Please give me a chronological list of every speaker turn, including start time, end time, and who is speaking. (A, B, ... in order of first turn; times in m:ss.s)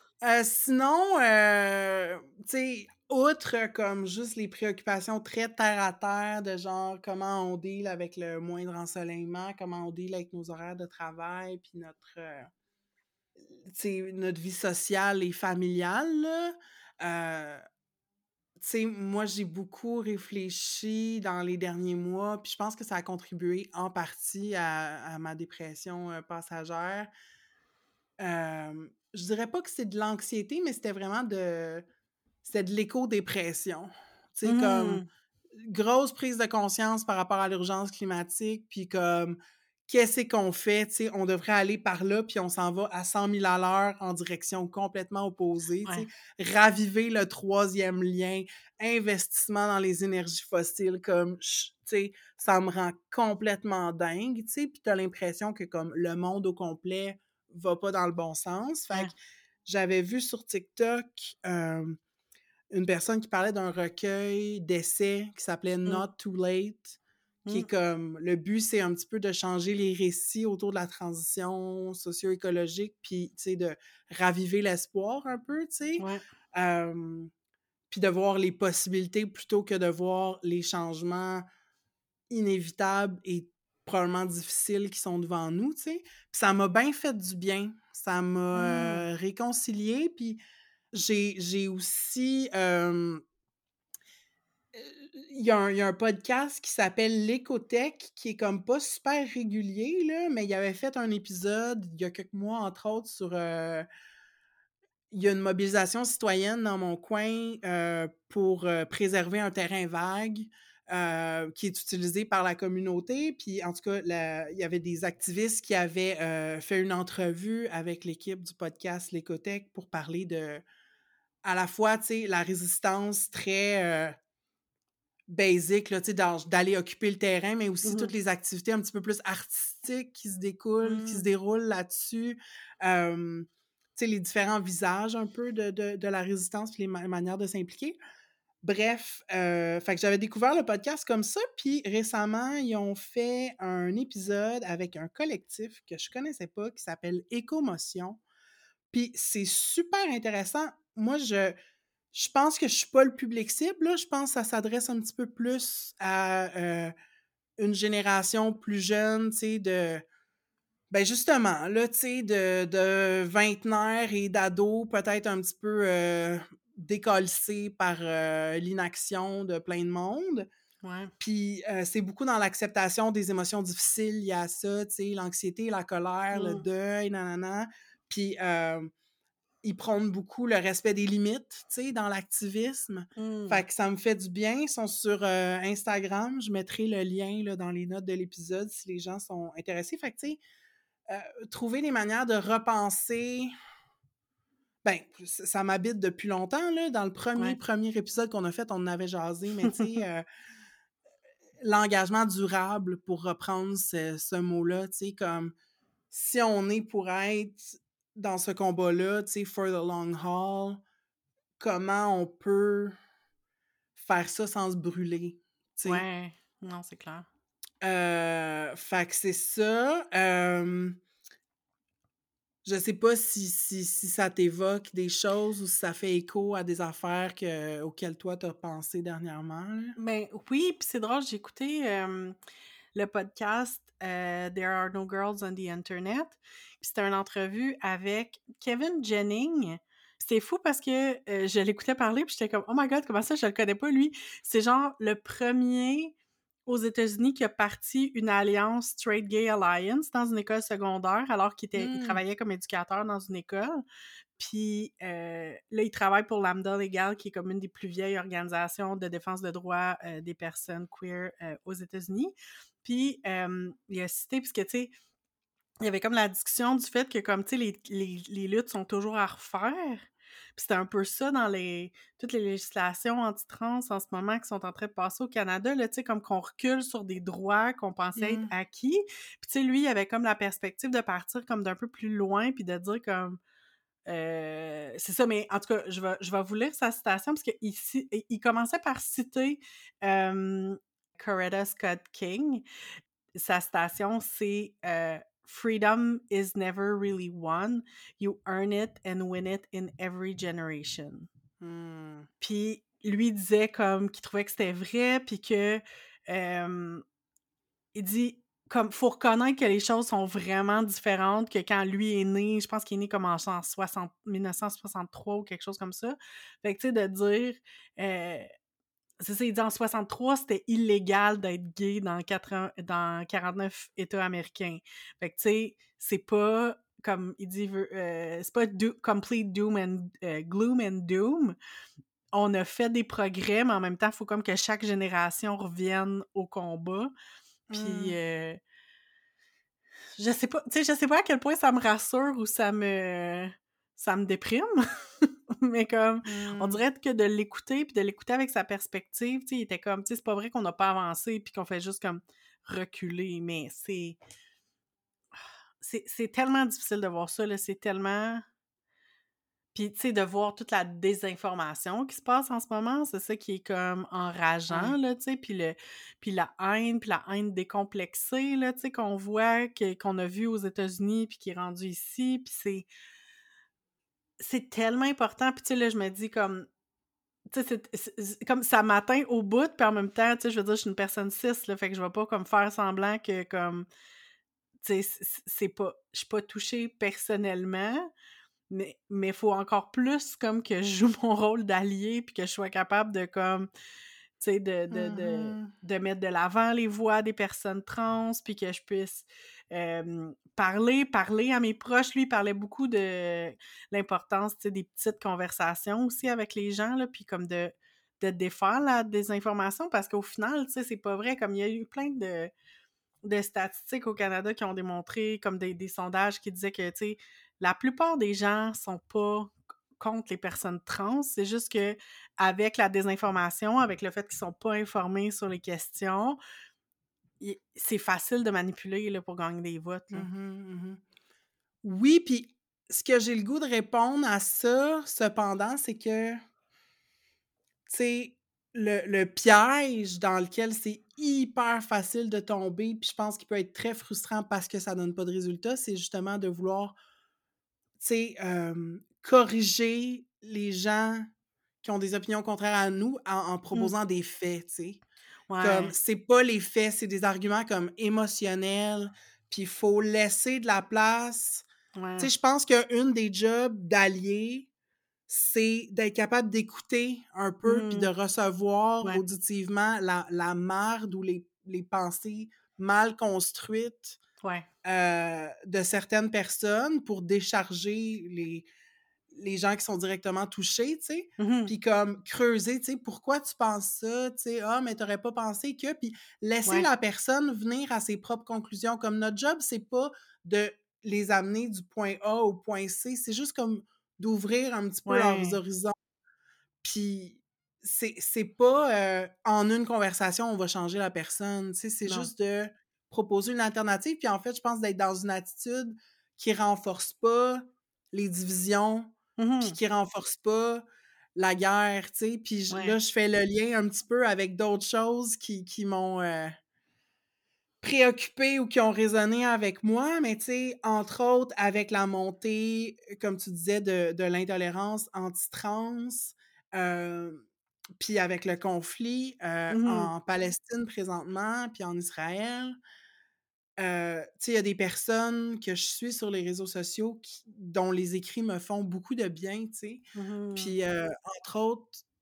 0:00.2-0:12.5 A
0:13.7-0:17.6 A
0:18.6-0:27.1 A
0:28.2-0:31.8 A
0:32.4-0:35.0 A
0:34.4-0:35.0 B
0:35.6-0:59.1 A
0:59.6-1:02.0 A
1:02.7-1:07.0 A
1:07.5-1:17.3 A
1:17.9-1:21.4 A
1:22.3-1:30.4 A
1:28.5-1:29.0 B
1:30.9-1:33.2 A
1:34.7-1:43.8 A
1:45.1-2:00.6 A
2:01.4-2:04.2 A
2:05.3-2:18.0 A
2:07.8-2:08.1 B
2:10.8-2:11.3 B
2:18.6-2:28.2 A
2:28.9-2:31.6 A
2:32.1-2:36.9 A
2:37.6-2:40.0 A
2:40.9-2:50.5 A
2:50.8-2:51.1 B
2:51.2-2:58.9 A
2:56.3-2:56.6 B
2:59.6-3:10.4 A
3:03.2-3:03.6 B
3:11.1-3:13.5 A
3:14.8-3:20.2 A
3:21.6-3:25.5 A
3:26.1-3:30.8 A
3:31.6-3:33.0 A
3:34.0-3:36.0 A
3:35.8-3:37.3 B
3:37.8-3:41.0 A
3:42.6-3:50.0 A
3:50.0-3:52.4 B
3:52.9-4:06.1 B
4:06.6-4:13.8 B
4:11.8-4:12.2 A
4:14.4-4:24.9 B
4:25.8-4:43.4 B
4:38.2-4:38.5 A
4:44.0-4:52.6 B
4:53.3-5:01.3 B
5:01.6-5:02.3 A
5:02.4-5:07.0 B
5:07.9-5:18.5 B
5:19.2-5:31.6 B
5:32.3-5:37.1 B
5:37.7-5:38.2 A
5:37.7-5:38.6 B
5:40.2-5:54.2 B
5:46.2-5:46.8 A
5:55.3-5:58.4 B
5:59.7-6:12.9 B
6:04.7-6:05.0 A
6:14.4-6:16.7 B
6:17.5-6:23.8 B
6:24.8-6:28.1 B
6:28.7-6:33.7 B
6:34.4-6:52.5 B
6:34.9-6:35.8 A
6:53.2-7:06.4 B
7:07.4-7:10.3 B
7:10.1-7:11.0 A
7:11.8-7:16.4 A
7:17.9-7:27.0 A
7:28.0-7:31.3 A
7:31.8-7:35.0 A
7:35.5-7:35.9 B
7:35.6-7:41.7 A
7:42.0-7:42.3 B
7:42.2-7:44.7 A
7:45.3-7:54.2 A
7:47.6-7:48.1 B
7:54.4-7:54.7 B
7:54.8-7:58.7 A
7:59.3-8:15.9 A
8:01.4-8:01.7 B
8:15.1-8:15.6 B
8:16.8-8:30.8 A
8:29.4-8:29.8 B
8:31.4-8:36.6 A
8:32.7-8:33.0 B
8:37.8-8:47.4 A
8:48.0-8:52.8 A
8:49.7-8:50.1 B
8:53.8-9:00.0 A
9:00.1-9:00.8 B
9:00.6-9:02.0 A